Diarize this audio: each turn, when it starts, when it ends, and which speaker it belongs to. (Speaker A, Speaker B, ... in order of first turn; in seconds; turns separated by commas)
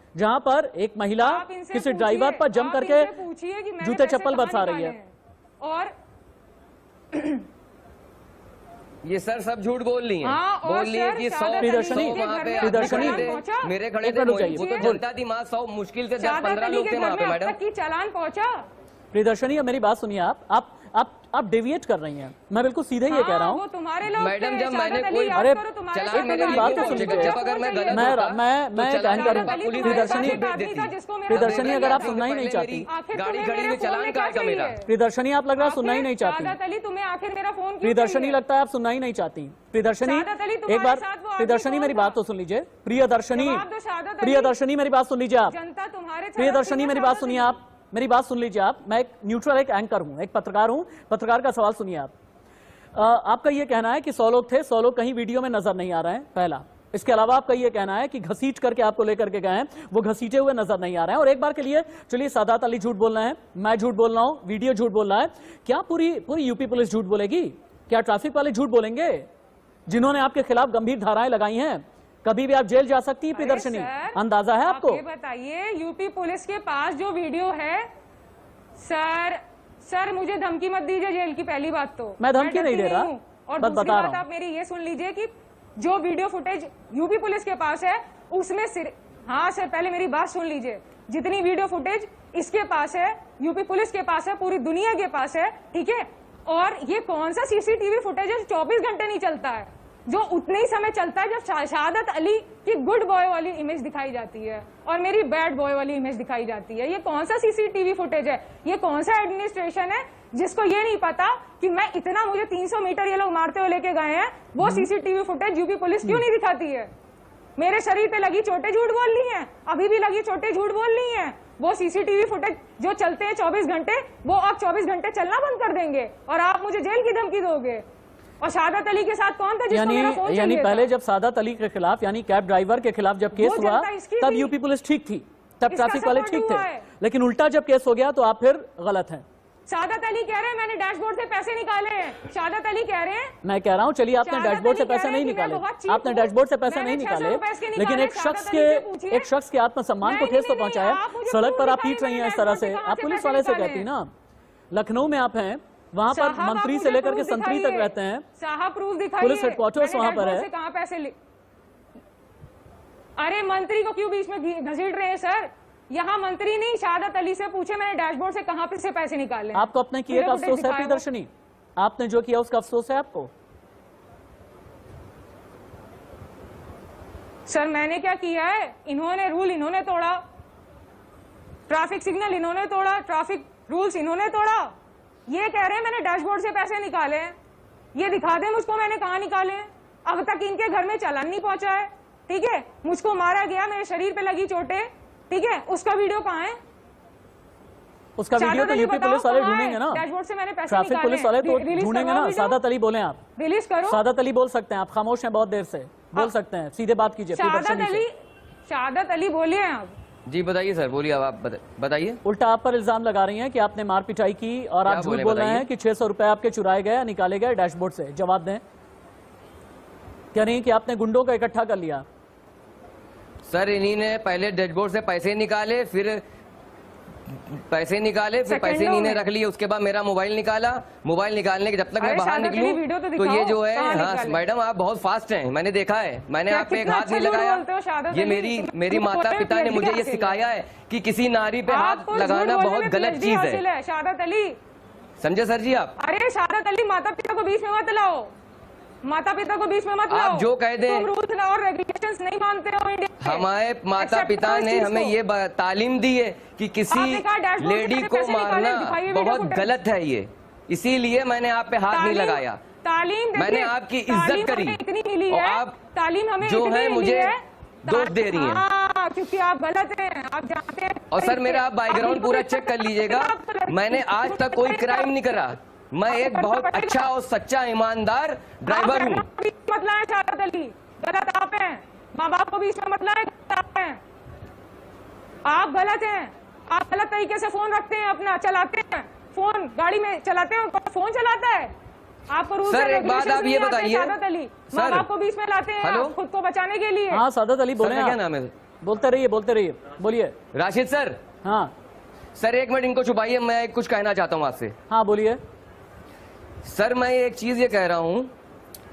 Speaker A: 0.2-3.1, Speaker B: 1.2-5.1, Speaker A: 3.8-5.0, Speaker B: 5.6-5.9, Speaker B: 7.1-7.5, Speaker C: 9.0-17.6, Speaker B: 10.2-13.7, Speaker A: 11.6-13.4, Speaker A: 14.0-15.0, Speaker B: 14.5-15.0, Speaker B: 16.2-18.7, Speaker A: 19.1-23.6, Speaker B: 23.1-28.2, Speaker C: 24.1-34.8, Speaker A: 25.4-27.4, Speaker A: 27.9-30.5, Speaker B: 29.0-32.2, Speaker A: 31.3-32.9, Speaker B: 32.9-34.9, Speaker A: 34.9-36.6, Speaker B: 35.6-38.4, Speaker A: 37.8-43.6, Speaker B: 40.0-42.2, Speaker B: 43.3-44.5, Speaker A: 44.2-45.5, Speaker B: 45.5-47.6, Speaker A: 46.4-52.1, Speaker A: 52.9-69.3, Speaker A: 69.9-75.0, Speaker B: 73.3-77.9, Speaker B: 78.8-116.9, Speaker A: 82.2-84.2, Speaker B: 117.6-127.8, Speaker B: 128.4-130.9, Speaker A: 129.7-139.2, Speaker B: 133.3-134.5, Speaker B: 135.7-136.8, Speaker B: 139.7-143.3, Speaker A: 143.4-154.1, Speaker B: 144.2-149.3, Speaker B: 150.0-153.9, Speaker A: 154.7-158.3, Speaker B: 156.1-161.1, Speaker A: 159.2-160.5, Speaker B: 163.2-171.1, Speaker A: 169.5-173.3, Speaker B: 177.5-180.2, Speaker B: 181.7-184.7, Speaker B: 185.3-187.3, Speaker B: 187.9-196.6, Speaker A: 198.2-200.1, Speaker B: 198.4-202.6, Speaker A: 200.7-203.2, Speaker B: 203.4-204.0, Speaker A: 203.8-208.0, Speaker B: 207.3-208.1, Speaker B: 208.7-209.9, Speaker C: 210.3-212.2, Speaker A: 212.2-218.6, Speaker C: 214.8-215.7, Speaker A: 220.3-222.1, Speaker C: 223.5-226.2, Speaker C: 227.5-243.6, Speaker B: 228.5-229.2, Speaker B: 232.0-234.4, Speaker B: 236.5-240.4, Speaker B: 241.7-244.6, Speaker C: 245.2-245.9, Speaker B: 246.0-248.3, Speaker B: 249.0-253.5, Speaker C: 250.1-251.1, Speaker C: 253.2-262.6, Speaker B: 254.0-255.2, Speaker B: 256.9-259.7, Speaker B: 261.9-275.2, Speaker C: 263.4-265.8, Speaker C: 266.4-267.3, Speaker C: 267.9-268.6, Speaker C: 271.1-279.3, Speaker B: 276.1-277.1, Speaker B: 278.7-284.0, Speaker B: 285.4-291.7, Speaker B: 292.3-297.2, Speaker C: 292.6-294.1, Speaker C: 294.7-295.1, Speaker C: 295.8-296.2, Speaker A: 297.1-298.2, Speaker C: 297.8-298.5, Speaker A: 298.8-300.3, Speaker C: 300.5-301.2, Speaker A: 301.4-301.7, Speaker C: 302.4-304.8, Speaker A: 304.9-305.4, Speaker C: 306.6-308.3